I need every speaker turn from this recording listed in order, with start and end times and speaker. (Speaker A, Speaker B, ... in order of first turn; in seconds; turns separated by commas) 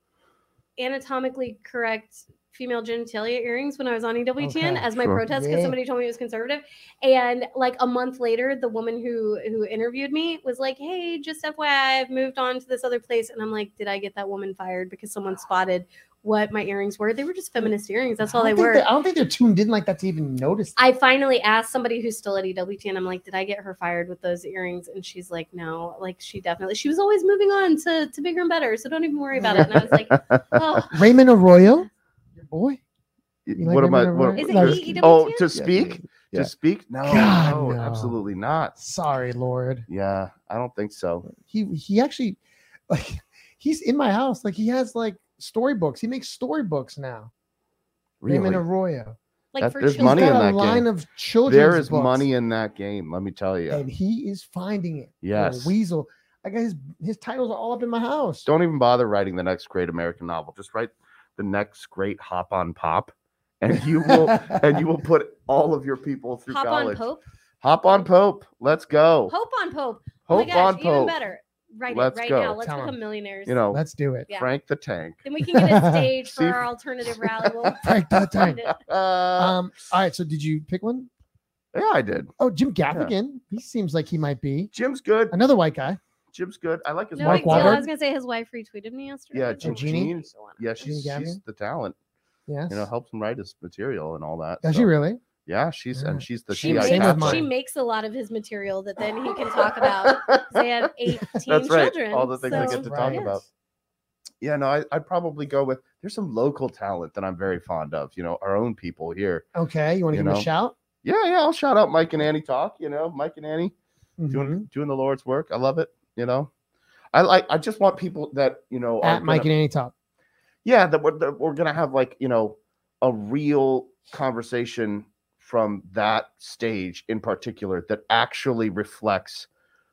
Speaker A: 0.8-18.9, Speaker B: 4.4-5.8, Speaker B: 18.2-20.7, Speaker A: 20.8-31.0, Speaker B: 29.4-29.9, Speaker C: 29.6-30.8, Speaker B: 30.9-32.8, Speaker C: 33.5-38.7, Speaker B: 33.6-36.5, Speaker A: 34.4-35.5, Speaker B: 37.0-38.1, Speaker B: 38.8-39.9, Speaker C: 39.9-41.3, Speaker B: 41.3-47.3, Speaker C: 48.2-48.6, Speaker B: 48.3-49.2, Speaker A: 49.5-50.5, Speaker C: 49.6-50.9, Speaker B: 50.0-52.3, Speaker C: 51.5-53.8, Speaker B: 53.7-58.5, Speaker C: 55.2-55.8, Speaker C: 58.5-67.0, Speaker B: 64.0-64.6, Speaker A: 66.5-67.2, Speaker C: 67.6-69.3, Speaker A: 69.3-73.6, Speaker C: 70.3-71.2, Speaker B: 70.3-70.6, Speaker C: 71.9-72.7, Speaker B: 72.6-73.0, Speaker C: 73.5-75.2, Speaker B: 73.7-74.3, Speaker A: 75.2-78.8, Speaker B: 75.5-76.1, Speaker C: 76.2-76.6, Speaker C: 77.2-79.6, Speaker B: 77.8-78.7, Speaker B: 79.4-81.1, Speaker C: 81.7-82.3, Speaker B: 82.4-84.7, Speaker C: 84.7-85.4, Speaker B: 85.3-86.0, Speaker C: 86.3-87.8, Speaker A: 87.2-90.7, Speaker B: 87.2-87.9, Speaker C: 89.3-92.0, Speaker B: 89.6-90.1, Speaker B: 90.8-91.4, Speaker B: 92.5-92.9, Speaker C: 92.7-94.9, Speaker B: 94.6-95.2, Speaker C: 95.5-97.5, Speaker B: 96.0-97.5, Speaker A: 96.5-103.4, Speaker C: 99.3-100.6, Speaker C: 101.3-103.4, Speaker B: 102.5-103.4, Speaker C: 104.4-109.5, Speaker B: 109.5-110.8, Speaker C: 110.1-110.5, Speaker C: 111.0-113.8, Speaker B: 114.2-114.7, Speaker C: 114.3-116.5, Speaker C: 117.1-119.5, Speaker B: 119.0-119.9, Speaker C: 120.7-129.5